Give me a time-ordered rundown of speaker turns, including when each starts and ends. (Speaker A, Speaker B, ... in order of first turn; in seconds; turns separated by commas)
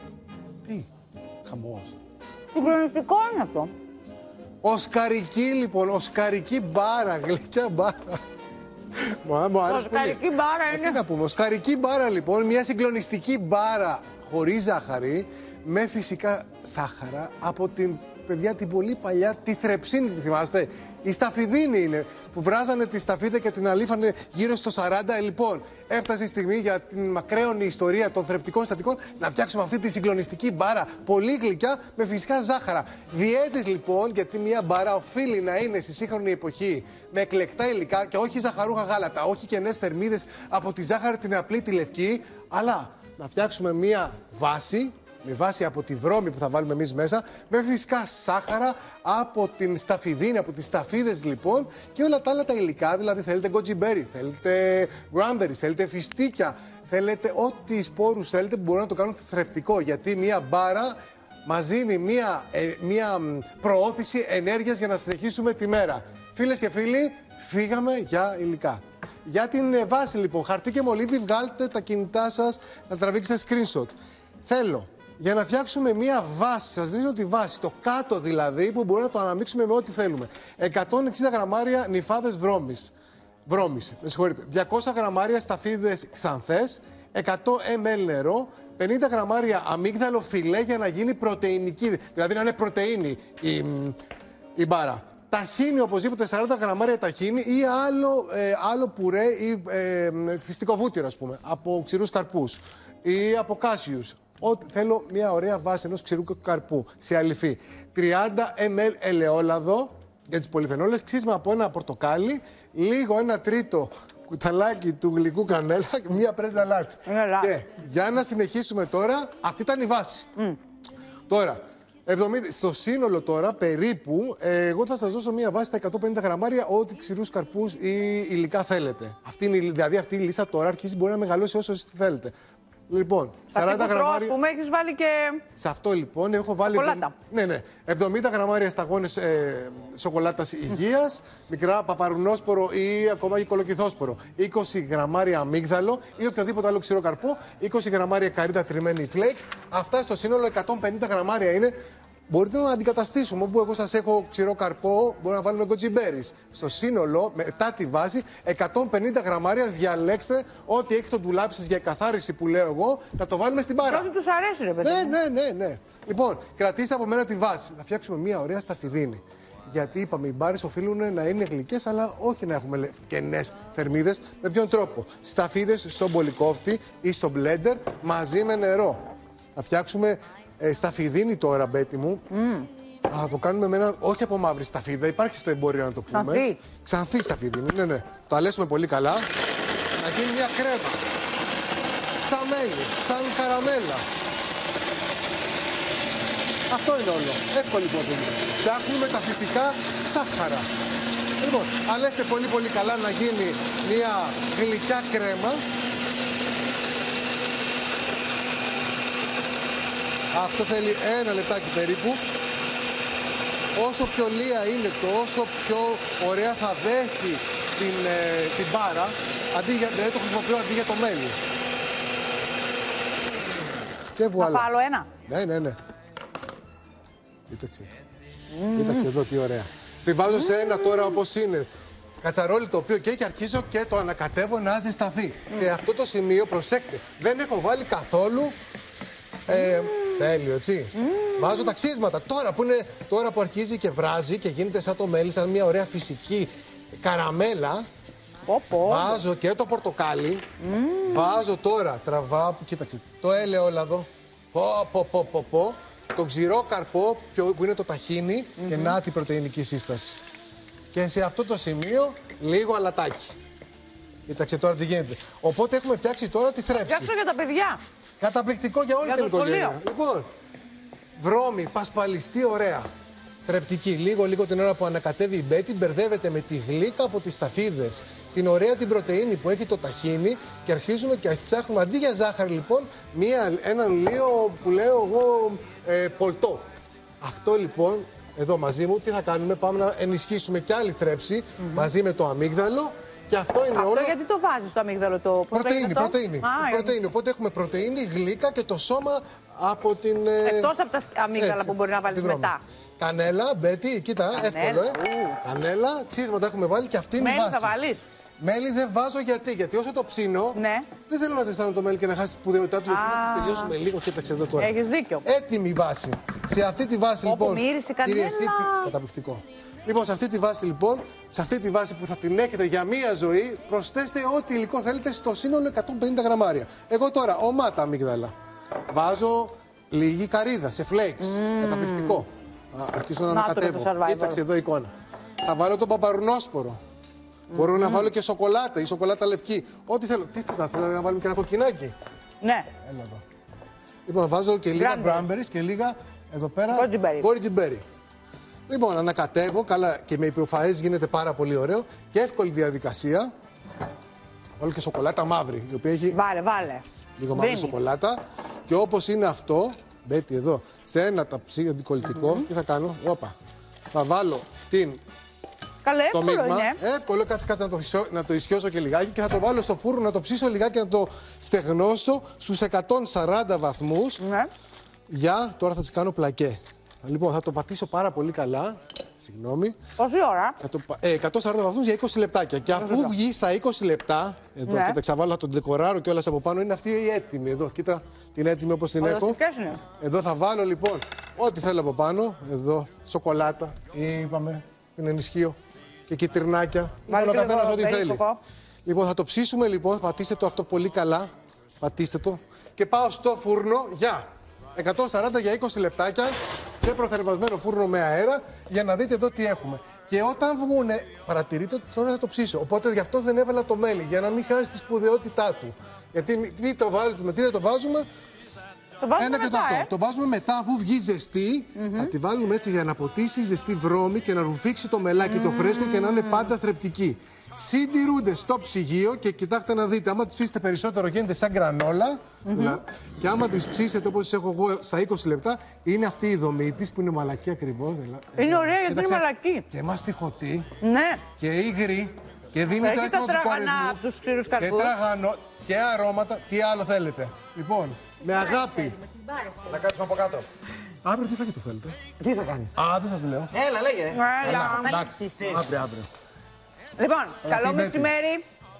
Speaker A: 1.4-1.9, Speaker B: 2.5-3.7, Speaker A: 4.6-8.2, Speaker A: 8.9-82.9, Speaker B: 9.7-11.0, Speaker A: 83.5-94.0, Speaker A: 94.5-120.3, Speaker B: 117.0-117.5, Speaker A: 121.3-132.3, Speaker A: 132.9-134.3, Speaker B: 133.5-135.4, Speaker A: 135.6-151.7, Speaker B: 136.7-137.1, Speaker A: 152.3-164.1, Speaker B: 163.9-165.2, Speaker A: 164.8-179.0, Speaker A: 179.5-182.2, Speaker B: 182.3-182.7, Speaker A: 183.1-189.3, Speaker B: 186.1-186.6, Speaker A: 190.0-191.0, Speaker A: 192.2-194.0, Speaker A: 196.7-200.7, Speaker A: 201.4-205.6, Speaker A: 210.3-212.2, Speaker A: 213.8-221.3, Speaker A: 224.2-224.7, Speaker B: 224.4-225.1, Speaker A: 225.2-225.8, Speaker A: 227.5-227.9, Speaker B: 228.5-229.1, Speaker A: 228.7-231.7, Speaker B: 230.4-231.2, Speaker A: 232.2-238.6, Speaker A: 239.4-247.8, Speaker B: 239.5-240.3, Speaker B: 240.9-241.7, Speaker B: 248.4-249.2, Speaker A: 248.8-250.4, Speaker B: 250.6-251.4, Speaker A: 251.0-260.2, Speaker B: 258.6-259.0, Speaker A: 260.9-263.3, Speaker A: 264.3-267.1, Speaker B: 266.9-267.8, Speaker A: 268.2-270.3, Speaker B: 269.0-269.8, Speaker A: 271.2-272.8, Speaker A: 273.4-286.6, Speaker A: 287.2-294.1, Speaker B: 291.6-291.9, Speaker B: 293.7-296.9, Speaker A: 295.5-300.7, Speaker B: 300.4-302.6, Speaker A: 301.4-307.7, Speaker B: 304.3-305.4, Speaker B: 307.2-308.0, Speaker A: 308.4-314.7, Speaker B: 310.5-310.9, Speaker B: 312.9-313.7, Speaker B: 314.6-315.2, Speaker A: 315.2-328.3, Speaker B: 317.2-318.9, Speaker A: 328.9-334.9, Speaker B: 331.2-332.2, Speaker B: 333.3-334.4, Speaker A: 335.4-336.8, Speaker A: 337.5-341.9, Speaker B: 337.5-338.1, Speaker B: 342.4-342.7, Speaker A: 342.8-343.2, Speaker A: 344.1-347.8, Speaker B: 344.8-345.2, Speaker B: 346.7-347.3, Speaker A: 348.7-353.3, Speaker A: 354.6-356.2, Speaker B: 356.1-357.7, Speaker A: 357.2-363.3, Speaker A: 363.9-365.0, Speaker B: 365.8-366.8, Speaker A: 366.1-374.2, Speaker B: 374.2-374.5, Speaker A: 375.1-379.8, Speaker B: 380.0-380.6, Speaker A: 380.6-389.4, Speaker B: 382.8-383.1, Speaker B: 384.7-385.0, Speaker B: 389.0-389.8, Speaker A: 390.0-395.6, Speaker A: 396.1-398.2, Speaker B: 397.1-398.4, Speaker A: 398.8-418.1, Speaker B: 419.0-419.9, Speaker A: 419.1-440.7, Speaker B: 421.8-422.1, Speaker B: 425.2-426.5, Speaker B: 432.4-432.8, Speaker B: 438.4-439.6, Speaker B: 440.8-441.2, Speaker A: 441.4-444.0, Speaker B: 442.8-444.9, Speaker A: 444.6-449.1, Speaker C: 449.2-450.5, Speaker A: 451.0-452.0, Speaker C: 452.2-452.7, Speaker A: 452.7-453.6, Speaker C: 453.6-455.7, Speaker B: 454.0-455.1, Speaker A: 454.4-456.1, Speaker B: 457.0-458.4, Speaker A: 457.4-458.1